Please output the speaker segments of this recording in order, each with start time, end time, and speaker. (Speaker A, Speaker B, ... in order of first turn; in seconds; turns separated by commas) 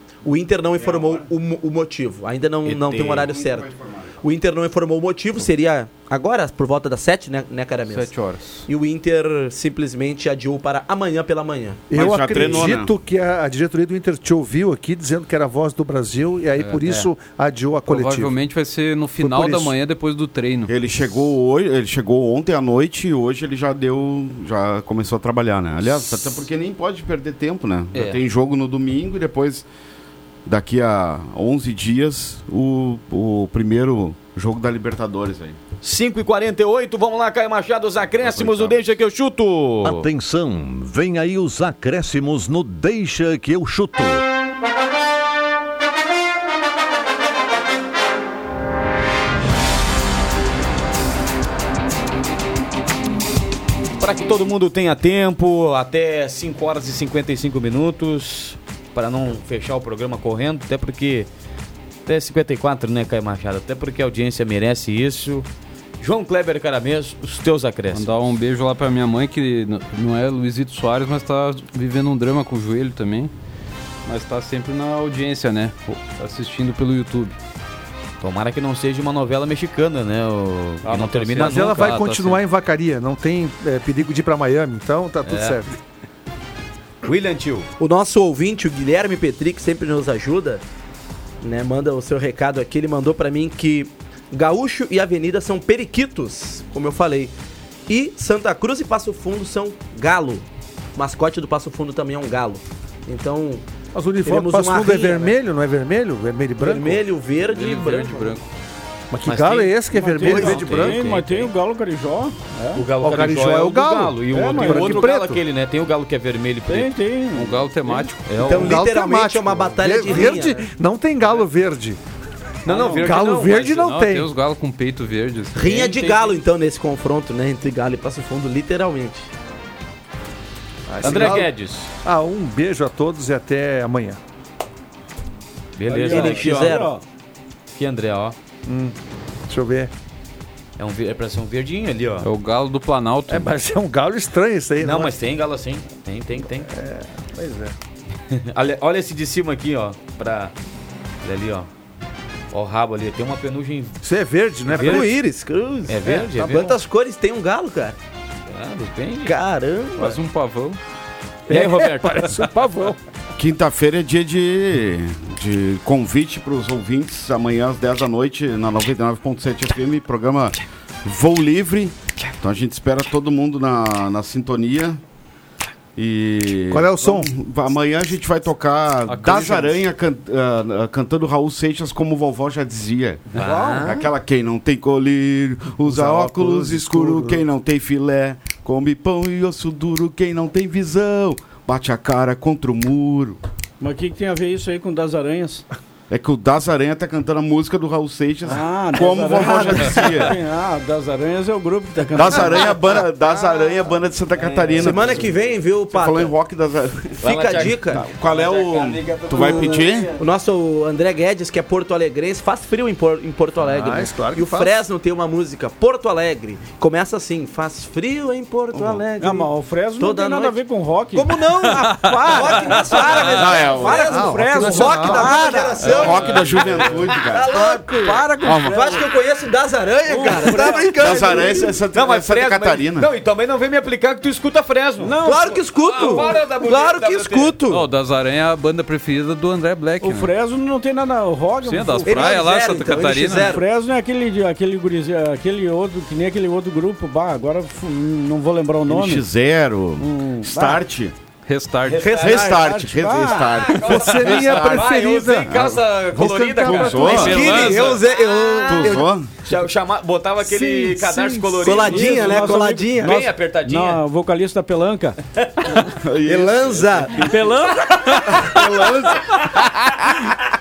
Speaker A: 0.2-3.7, Speaker B: 0.7-1.2, Speaker C: 2.6-3.3, Speaker B: 3.0-4.2, Speaker A: 4.2-8.1, Speaker D: 7.9-8.7, Speaker A: 8.7-11.9, Speaker B: 11.9-12.9, Speaker E: 11.9-18.3, Speaker D: 16.6-17.1, Speaker D: 17.8-20.7, Speaker E: 19.2-19.8, Speaker B: 20.7-29.6, Speaker B: 30.4-35.6, Speaker C: 35.8-40.1, Speaker B: 38.2-38.8, Speaker F: 39.8-44.2, Speaker C: 54.0-61.3, Speaker C: 62.0-65.5, Speaker C: 66.0-68.1, Speaker D: 67.9-73.3, Speaker D: 74.0-77.4, Speaker C: 78.2-82.0, Speaker D: 80.8-82.4, Speaker E: 81.4-85.7, Speaker C: 85.2-85.6, Speaker C: 87.0-87.7, Speaker A: 87.8-90.6, Speaker A: 91.4-97.3, Speaker A: 97.9-100.4, Speaker A: 101.0-103.6, Speaker E: 103.9-107.0, Speaker A: 104.2-105.3, Speaker A: 106.6-108.4, Speaker D: 107.4-108.4, Speaker E: 109.1-110.6, Speaker C: 109.2-111.5, Speaker G: 109.9-112.8, Speaker D: 110.2-111.0, Speaker C: 112.8-116.9, Speaker E: 113.0-115.4, Speaker G: 114.3-115.0, Speaker G: 116.7-118.1, Speaker D: 117.3-118.6, Speaker C: 118.2-118.8, Speaker A: 118.5-120.6, Speaker E: 118.5-122.0, Speaker C: 122.7-123.9, Speaker E: 122.7-124.3, Speaker D: 122.7-125.6, Speaker A: 125.5-129.3, Speaker C: 125.5-126.3, Speaker E: 130.9-131.5, Speaker C: 131.0-131.9, Speaker E: 132.0-134.2, Speaker C: 135.8-136.9, Speaker G: 135.9-137.0, Speaker A: 136.0-136.9, Speaker C: 137.7-138.3, Speaker E: 138.7-138.9, Speaker E: 139.5-139.9, Speaker C: 140.8-142.3, Speaker D: 142.2-143.5, Speaker E: 143.3-145.2, Speaker C: 144.8-146.7, Speaker E: 146.6-147.7, Speaker C: 148.3-150.5, Speaker C: 151.2-151.7, Speaker C: 152.5-154.0, Speaker E: 154.0-155.2, Speaker C: 154.7-155.1, Speaker A: 154.7-158.0, Speaker C: 155.9-156.8, Speaker C: 158.5-159.3, Speaker A: 159.2-160.2, Speaker D: 159.9-160.8, Speaker E: 161.5-163.0, Speaker C: 161.5-162.4, Speaker B: 163.4-175.0, Speaker B: 175.9-193.4, Speaker E: 176.7-177.3, Speaker D: 179.1-179.8, Speaker G: 183.3-183.9, Speaker C: 183.3-184.1, Speaker E: 185.8-187.4, Speaker G: 193.8-195.7, Speaker B: 196.1-200.3, Speaker G: 198.4-202.8, Speaker B: 202.1-210.2, Speaker C: 204.4-205.3, Speaker A: 204.8-206.3, Speaker A: 207.2-208.0, Speaker C: 207.2-210.2, Speaker A: 210.2-220.6, Speaker E: 213.6-214.7, Speaker B: 218.7-219.0, Speaker G: 219.2-226.0, Speaker E: 221.2-221.8, Speaker A: 221.2-221.6, Speaker D: 221.8-223.4, Speaker A: 222.2-226.7, Speaker B: 223.2-224.2, Speaker E: 224.1-225.4, Speaker D: 225.8-226.2, Speaker B: 225.9-227.5, Speaker A: 227.2-231.7, Speaker G: 227.5-229.0, Speaker D: 228.4-228.7, Speaker G: 230.1-231.6, Speaker B: 230.8-233.1, Speaker C: 231.9-235.2, Speaker G: 235.0-236.2, Speaker A: 235.2-237.8, Speaker C: 235.8-237.5, Speaker D: 237.7-240.3, Speaker G: 240.0-242.4, Speaker D: 241.6-243.5, Speaker A: 242.1-243.6, Speaker G: 243.3-249.2, Speaker B: 248.8-251.1, Speaker G: 250.0-250.8, Speaker D: 251.4-252.1, Speaker C: 251.8-252.5, Speaker A: 252.0-252.5, Speaker B: 252.1-254.8, Speaker G: 252.2-253.5, Speaker C: 253.6-264.0, Speaker E: 253.8-257.2, Speaker B: 255.5-255.8, Speaker B: 256.7-257.5, Speaker D: 257.0-258.0, Speaker A: 257.1-259.0, Speaker B: 258.6-259.3, Speaker E: 260.4-261.7, Speaker A: 261.6-263.2, Speaker G: 261.8-265.1, Speaker B: 265.9-267.3, Speaker A: 266.2-267.4, Speaker G: 267.1-268.4, Speaker B: 268.3-269.5